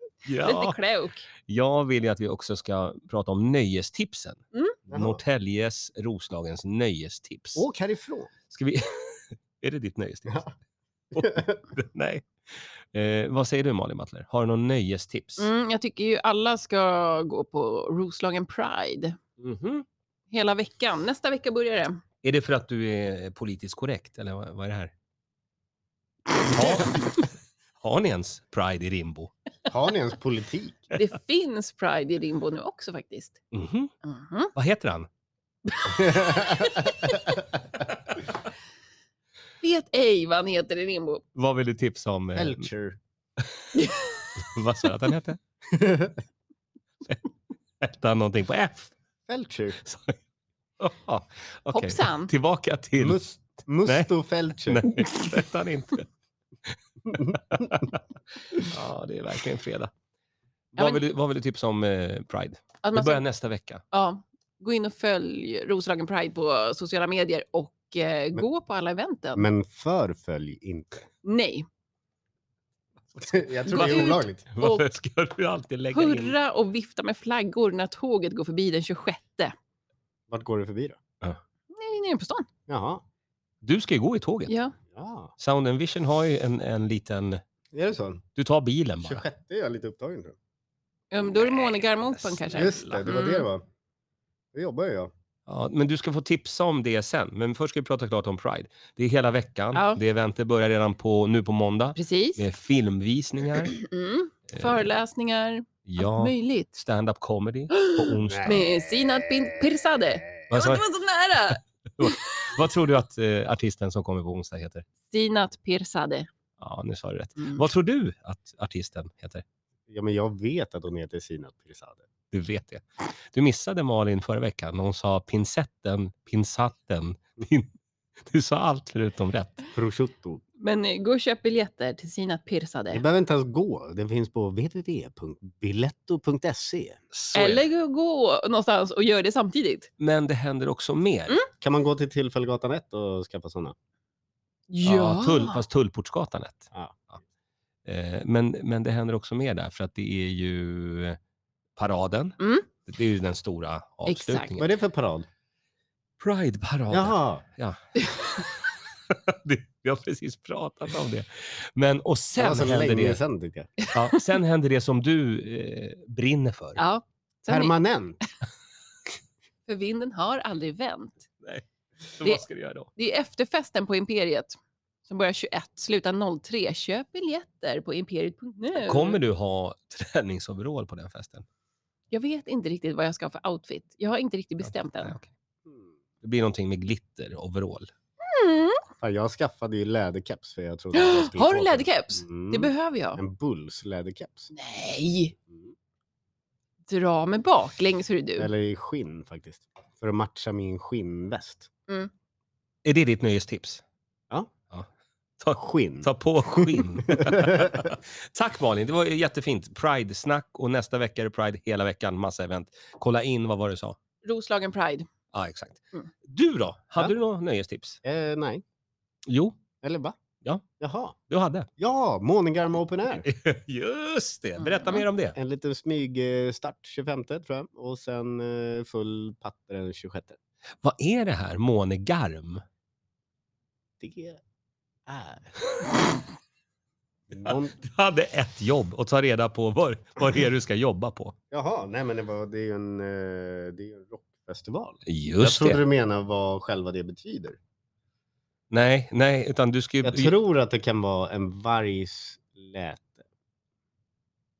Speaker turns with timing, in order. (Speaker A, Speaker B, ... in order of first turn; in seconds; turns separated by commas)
Speaker A: 0.2-0.8, Speaker B: 0.4-1.3, Speaker A: 1.5-7.6, Speaker C: 4.9-5.2, Speaker C: 7.5-8.3, Speaker A: 8.5-10.4, Speaker C: 11.1-11.6, Speaker A: 11.1-15.5, Speaker B: 15.4-19.2, Speaker A: 19.4-19.8, Speaker B: 20.3-22.0, Speaker A: 22.2-24.9, Speaker A: 26.5-27.2, Speaker A: 27.8-29.3, Speaker C: 29.7-30.9, Speaker B: 30.9-33.4, Speaker A: 33.5-33.9, Speaker B: 34.0-34.5, Speaker A: 34.5-35.1, Speaker B: 35.6-37.4, Speaker C: 35.9-37.6, Speaker B: 39.6-41.2, Speaker A: 41.3-42.7, Speaker C: 42.3-43.0, Speaker B: 43.7-44.3, Speaker A: 44.4-45.4, Speaker C: 45.7-46.2, Speaker A: 47.8-48.9, Speaker C: 49.3-49.8, Speaker A: 49.8-50.2, Speaker A: 50.8-53.2, Speaker B: 51.7-52.3, Speaker C: 53.0-54.9, Speaker A: 54.6-56.1, Speaker A: 56.7-58.0, Speaker C: 57.1-57.9, Speaker A: 58.5-59.9, Speaker A: 60.7-63.8, Speaker B: 62.8-63.2, Speaker B: 63.9-69.5, Speaker C: 69.3-71.1, Speaker B: 71.2-71.7, Speaker C: 73.2-74.5, Speaker B: 73.7-74.9, Speaker A: 73.7-76.3, Speaker B: 75.9-79.5, Speaker C: 80.3-81.0, Speaker B: 81.7-82.5, Speaker C: 82.7-83.0, Speaker A: 83.6-84.5, Speaker B: 84.5-84.7, Speaker C: 84.9-85.3, Speaker A: 85.4-87.4, Speaker C: 87.7-88.2, Speaker A: 88.3-89.2, Speaker C: 89.0-90.3, Speaker B: 91.1-93.5, Speaker A: 91.7-93.0, Speaker C: 92.5-93.6, Speaker C: 94.5-95.1, Speaker A: 95.5-103.8, Speaker B: 99.7-100.0, Speaker B: 102.0-102.4, Speaker B: 103.7-106.7, Speaker A: 104.5-104.8, Speaker A: 105.8-108.6, Speaker B: 107.7-112.5, Speaker C: 108.2-110.5, Speaker A: 110.5-110.8, Speaker A: 111.5-114.8, Speaker B: 115.1-116.3, Speaker A: 116.6-119.4, Speaker B: 117.4-117.6, Speaker C: 119.9-122.0, Speaker A: 122.3-129.6, Speaker C: 129.7-130.4, Speaker B: 130.6-133.0, Speaker C: 132.9-137.0, Speaker A: 137.1-137.7, Speaker B: 137.3-139.9, Speaker A: 140.0-141.4, Speaker C: 141.6-143.7, Speaker B: 144.7-145.6, Speaker A: 144.8-147.2, Speaker C: 146.7-147.1, Speaker A: 147.8-151.2, Speaker A: 151.8-154.7, Speaker B: 152.4-152.7, Speaker B: 154.1-154.6, Speaker C: 154.6-155.2, Speaker A: 156.2-157.8, Speaker C: 156.9-157.4, Speaker B: 158.0-158.5, Speaker A: 159.1-163.2, Speaker C: 162.4-163.7, Speaker B: 163.8-164.2, Speaker A: 163.9-166.8, Speaker B: 166.8-167.7, Speaker C: 167.5-168.2, Speaker B: 169.7-171.3, Speaker A: 171.4-172.9, Speaker B: 172.9-179.2, Speaker A: 178.7-181.4, Speaker B: 182.1-185.2, Speaker A: 184.6-185.3, Speaker A: 186.2-187.9, Speaker B: 188.2-188.8, Speaker C: 189.0-194.5, Speaker B: 190.9-193.2, Speaker B: 194.5-195.3, Speaker B: 196.9-198.5, Speaker C: 198.4-201.7, Speaker A: 202.8-203.8, Speaker A: 205.4-214.0, Speaker C: 205.5-207.9, Speaker B: 214.2-215.1, Speaker A: 215.3-218.0, Speaker C: 218.0-218.6, Speaker A: 219.2-219.6, Speaker C: 219.8-220.2, Speaker C: 220.8-221.2, Speaker A: 221.3-221.7, Speaker C: 221.8-223.3, Speaker A: 223.2-225.3, Speaker B: 224.6-225.0, Speaker C: 225.3-230.4, Speaker A: 230.8-232.6, Speaker C: 234.0-234.4, Speaker C: 235.1-235.6, Speaker C: 237.3-237.8, Speaker A: 237.4-241.3, Speaker C: 241.5-247.6, Speaker A: 245.1-245.8, Speaker A: 248.7-250.3, Speaker C: 250.0-253.2